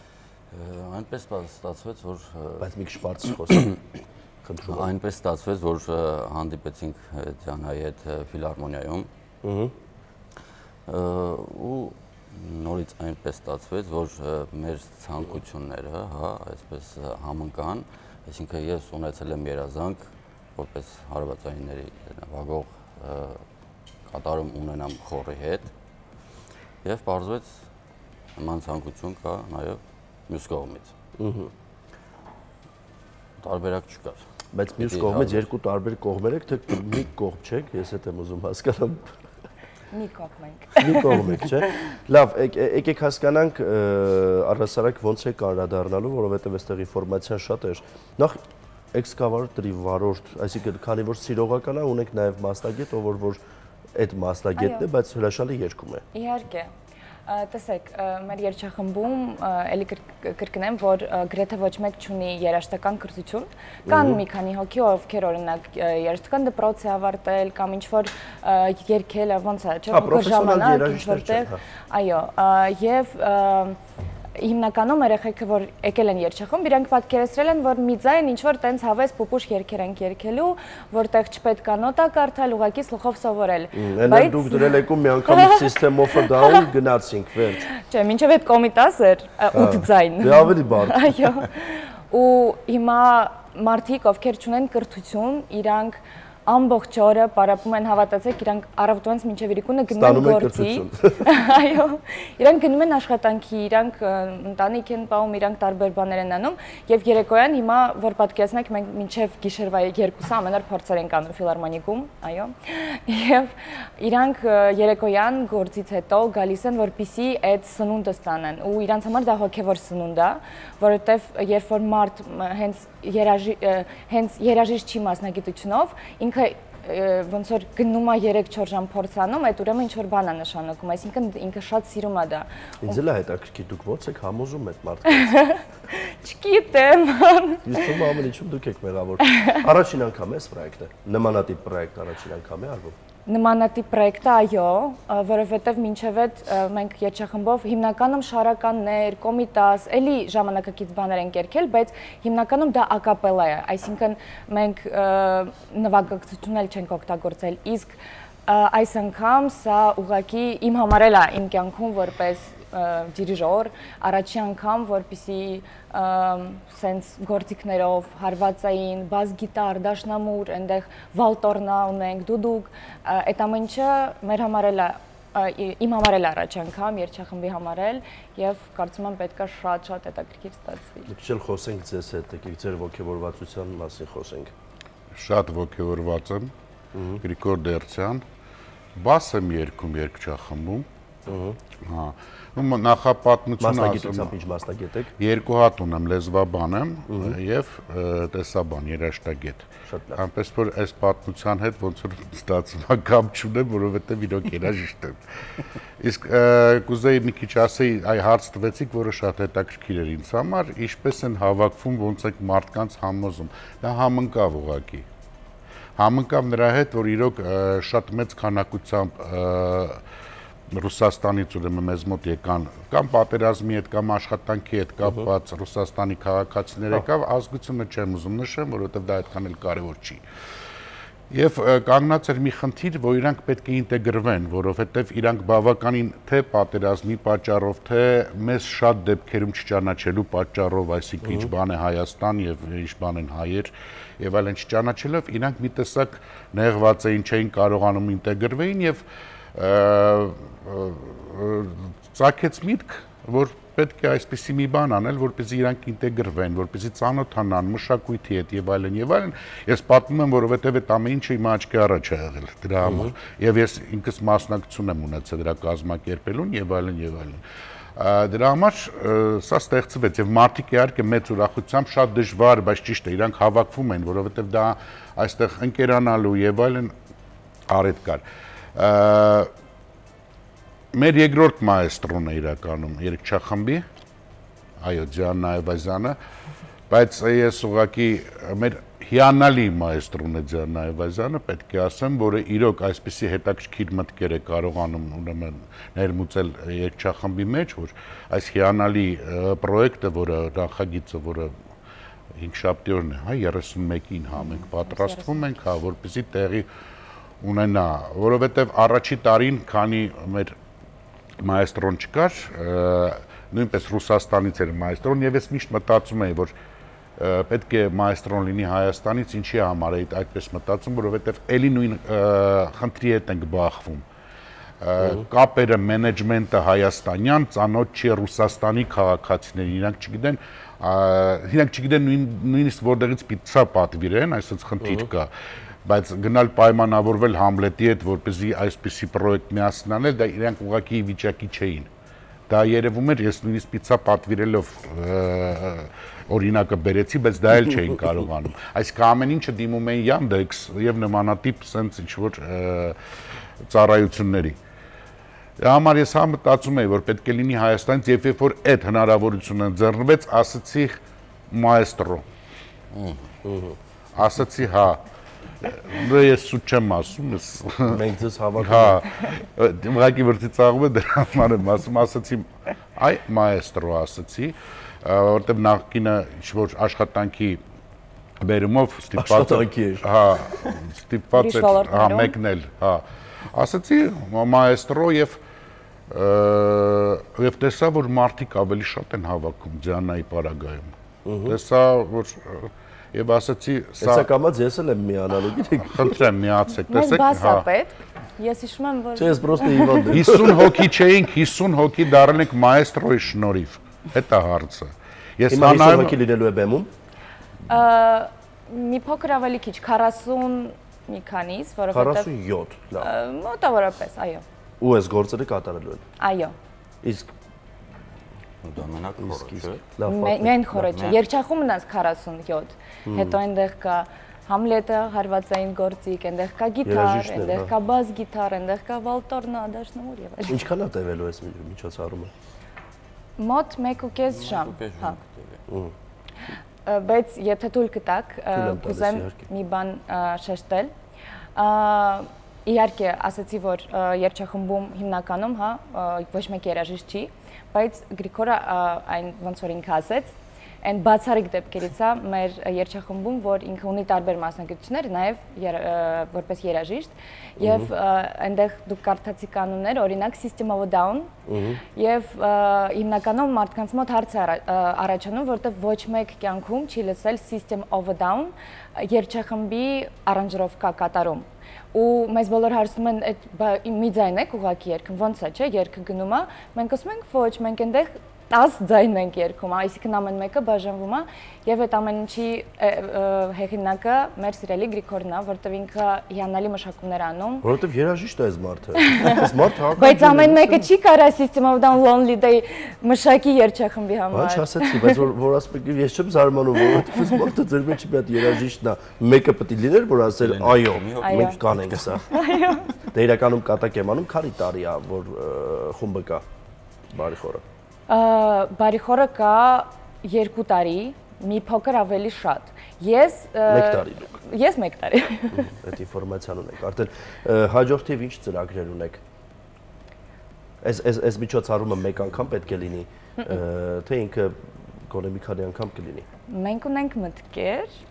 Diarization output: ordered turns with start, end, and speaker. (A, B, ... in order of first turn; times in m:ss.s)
0:00.5-0:02.7 A
0:02.6-0:03.7 B
0:03.3-0:03.8 A
0:04.4-0:04.9 B
0:04.6-0:09.1 A
0:09.4-0:09.7 B
0:10.9-0:23.4 A
0:24.1-0:25.7 A
0:26.8-0:27.6 A
0:28.4-0:30.9 A
0:31.2-0:31.5 B
0:33.4-0:34.2 A
0:34.5-0:39.2 B
0:34.8-0:35.4 A
0:39.9-0:41.2 C
0:40.8-0:48.4 B
0:48.9-0:53.4 B
0:53.9-0:56.0 B
0:54.6-0:54.8 C
0:56.1-0:56.7 C
0:57.3-1:13.8 C
1:03.8-1:04.2 B
1:09.9-1:11.6 B
1:14.4-1:26.6 C
1:23.7-1:27.7 B
1:27.8-2:12.5 C
1:29.5-1:31.1 B
1:39.9-1:41.2 B
2:12.8-2:15.3 B
2:15.1-2:18.0 C
2:17.6-2:22.9 B
2:19.2-2:19.5 C
2:23.2-3:01.1 C
3:01.1-3:04.5 B
3:05.1-3:06.5 D
3:06.9-3:07.2 B
3:07.2-3:08.2 D
3:08.9-3:10.8 D
3:11.3-3:11.6 B
3:11.8-3:14.3 D
3:13.6-3:15.1 B
3:15.2-3:25.2 D
3:17.1-3:17.4 B
3:19.8-3:20.2 B
3:26.0-3:35.0 D
3:36.0-3:40.0 D
3:40.7-3:50.2 D
3:51.3-4:09.0 D
4:01.2-4:01.5 B
4:09.5-4:27.4 D
4:22.8-4:23.1 B
4:28.0-4:36.9 D
4:37.7-4:38.2 D
4:38.7-4:39.5 D
4:40.9-4:43.8 D
4:44.8-4:46.2 D
4:46.9-5:01.5 D
5:02.3-5:06.6 D
5:04.4-5:05.4 C
5:07.4-5:10.5 D
5:11.4-5:16.5 D
5:17.2-5:24.0 D
5:24.8-5:35.3 D
5:34.8-5:35.1 B
5:35.8-5:41.9 D
5:42.5-5:52.9 D
5:53.6-5:54.6 D
5:55.6-6:01.0 D
6:01.5-6:02.2 D
6:02.9-6:03.2 A
6:03.4-6:03.8 B
6:04.2-6:05.0 D
6:05.6-6:08.0 D
6:07.9-6:09.0 B
6:08.6-6:17.6 D
6:18.4-6:23.0 D
6:19.2-6:20.0 B
6:21.3-6:22.3 C
6:23.5-6:25.4 D
6:26.1-6:30.9 D
6:31.2-6:31.6 B
6:31.4-6:34.3 D
6:34.0-6:36.2 B
6:35.9-6:37.6 D
6:36.9-6:40.1 C
6:39.2-6:40.8 B
6:40.1-6:46.2 D
6:45.5-6:46.9 B
6:47.7-6:52.3 C
6:51.9-6:53.1 B
6:53.0-6:54.4 C
6:54.8-6:56.0 B
6:56.2-6:56.5 C
6:57.0-6:57.3 B
6:58.6-6:59.8 A
6:59.2-7:00.9 B
7:00.0-7:10.6 C
7:00.9-7:01.2 A
7:03.0-7:03.4 B
7:06.8-7:07.7 B
7:10.4-7:12.3 B
7:13.4-7:15.2 C
7:14.3-7:15.6 A
7:15.7-7:15.9 B
7:16.8-7:20.9 C
7:18.5-7:19.4 B
7:21.5-7:41.3 C
7:37.6-7:37.9 B
7:41.5-7:41.8 B
7:41.9-8:07.6 C
8:07.6-8:10.9 B
8:09.1-8:09.4 C
8:10.0-8:15.2 C
8:14.3-8:22.2 B
8:20.4-8:22.2 A
8:21.2-8:21.6 C
8:22.3-8:22.9 C
8:23.1-8:26.4 B
8:27.1-8:27.6 B
8:28.1-8:35.7 C
8:33.7-8:34.3 B
8:35.5-8:39.2 B
8:40.8-8:46.2 B
8:46.5-8:48.0 C